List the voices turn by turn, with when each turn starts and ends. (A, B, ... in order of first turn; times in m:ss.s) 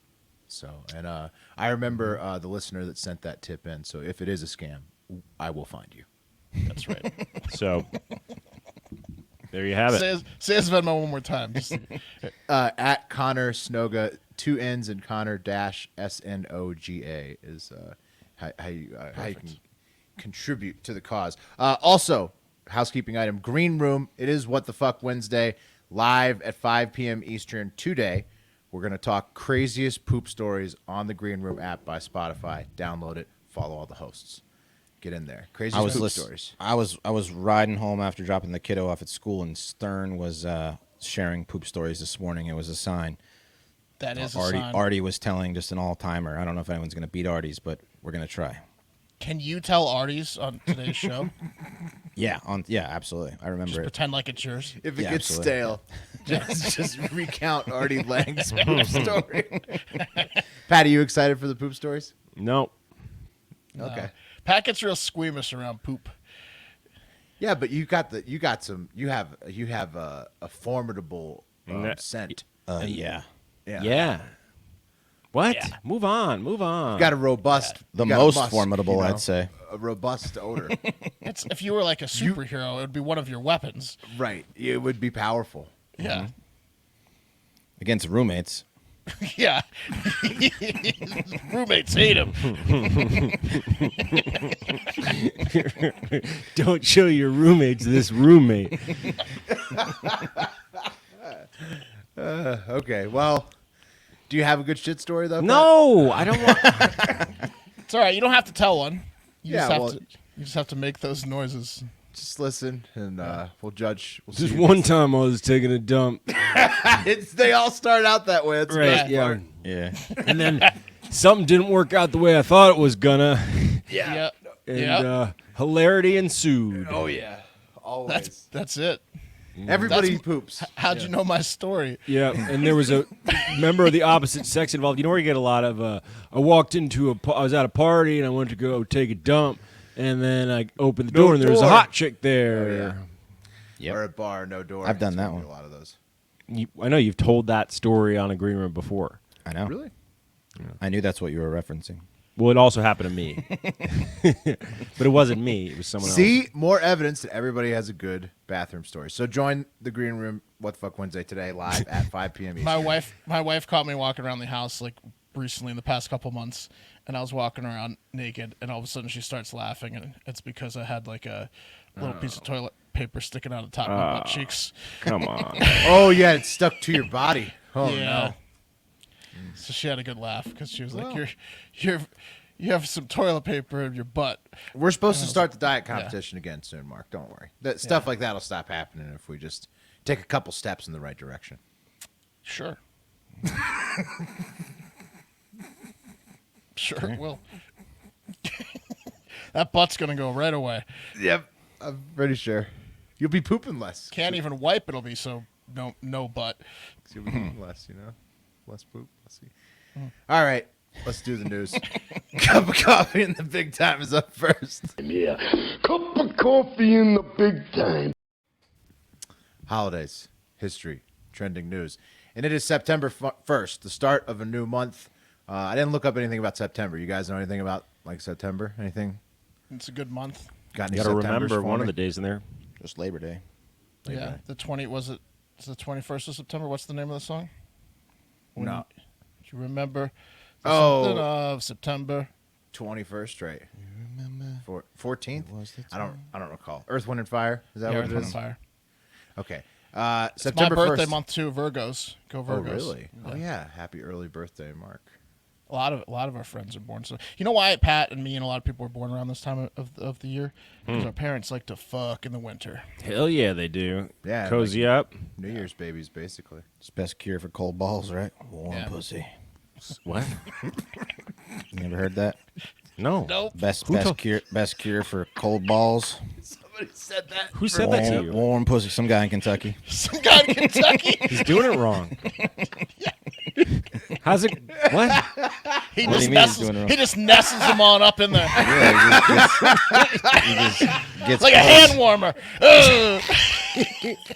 0:00.5-0:06.1 A
0:06.7-0:07.5 B
0:07.5-0:07.9 C
0:09.5-0:10.1 C
0:09.9-0:12.3 B
0:12.5-0:19.6 A
0:19.2-0:19.5 B
0:20.2-0:34.4 A
0:35.0-0:36.5 A
0:35.7-0:43.2 D
0:44.0-0:44.8 B
0:44.2-0:48.6 D
0:49.2-0:51.3 B
0:52.2-0:53.9 D
0:53.7-0:54.8 B
0:54.8-1:00.0 A
0:55.0-0:55.6 D
0:58.6-0:59.1 B
1:00.0-1:00.3 B
1:00.7-1:02.1 A
1:02.4-1:02.7 C
1:03.8-1:06.1 B
1:03.8-1:04.1 A
1:07.4-1:12.4 A
1:11.7-1:13.0 C
1:12.7-1:13.3 D
1:13.7-1:14.1 A
1:13.8-1:14.3 C
1:15.3-1:17.1 C
1:15.5-1:15.8 B
1:16.9-1:20.8 A
1:17.5-1:17.8 B
1:17.9-1:19.5 D
1:20.7-1:24.0 B
1:22.2-1:22.4 A
1:24.1-1:25.7 A
1:26.0-1:26.3 B
1:26.0-1:26.3 D
1:27.8-1:28.6 D
1:29.2-1:32.7 B
1:32.6-1:39.2 C
1:39.7-1:40.5 A
1:41.2-1:43.5 A
1:44.3-1:47.2 A
1:45.4-1:47.0 C
1:47.8-1:51.9 B
1:49.5-1:50.0 A
1:52.1-1:54.9 A
1:54.3-1:56.2 C
1:56.3-1:59.4 A
1:58.7-1:59.4 C
1:58.8-1:59.1 B
1:59.6-2:00.0 D
2:00.1-2:00.7 B
2:00.2-2:04.1 C
2:03.9-2:04.2 A
2:04.0-2:05.1 B
2:04.7-2:07.2 C
2:06.7-2:08.4 A
2:08.1-2:09.0 B
2:09.6-2:10.1 C
2:09.7-2:11.1 A
2:09.9-2:12.6 B
2:12.1-2:23.0 C
2:21.1-2:21.9 A
2:22.4-2:23.0 A
2:23.9-2:26.0 A
2:24.8-2:25.5 D
2:26.5-2:29.2 C
2:29.4-2:29.8 D
2:29.6-2:29.9 A
2:30.8-2:32.0 D
2:32.4-2:36.4 C
2:36.0-2:42.9 A
2:42.6-2:55.1 B
2:52.0-2:52.4 C
2:53.8-2:56.0 C
2:55.6-2:56.1 B
2:55.8-2:58.3 A
2:57.8-2:58.4 B
2:59.6-3:04.5 B
3:00.9-3:01.2 A
3:04.7-3:11.6 A
3:05.1-3:06.2 B
3:12.4-3:12.8 B
3:16.8-3:17.4 B
3:18.4-3:19.0 B
3:19.5-3:20.9 B
3:21.2-3:24.4 A
3:24.1-3:26.6 B
3:27.1-3:28.2 A
3:28.7-3:29.5 A
3:30.3-3:35.0 A
3:35.0-3:38.2 E
3:39.7-3:49.2 A
3:49.7-3:50.5 B
3:50.7-3:51.9 A
3:50.9-3:52.4 C
3:52.8-3:53.4 D
3:54.0-3:54.4 A
3:54.1-3:57.5 B
3:58.6-3:58.9 B
3:58.6-3:58.8 A
3:59.4-4:00.1 B
4:00.6-4:02.3 B
4:00.6-4:01.3 A
4:02.7-4:03.7 A
4:03.8-4:04.7 D
4:04.6-4:08.4 A
4:05.4-4:06.2 D
4:07.9-4:08.6 B
4:08.0-4:08.4 D
4:09.4-4:11.2 A
4:10.4-4:13.4 B
4:12.5-4:15.1 A
4:15.7-4:22.9 B
4:23.0-4:25.1 C
4:24.2-4:26.6 A
4:26.8-4:29.3 D
4:28.7-4:28.9 B
4:29.9-4:30.4 C
4:31.7-4:32.4 D
4:33.0-4:34.2 C
4:33.3-4:33.6 B
4:33.5-4:36.2 D
4:36.4-4:38.3 A
4:37.5-4:38.4 C
4:37.7-4:39.8 D
4:39.9-4:41.6 B
4:41.3-4:42.2 C
4:42.3-4:43.1 B
4:44.1-4:45.3 C
4:45.1-4:46.3 A
4:45.9-4:49.2 B
4:46.0-4:47.0 D
4:48.6-4:52.0 D
4:48.7-4:50.2 A
4:49.9-4:50.3 B
4:51.4-4:54.1 B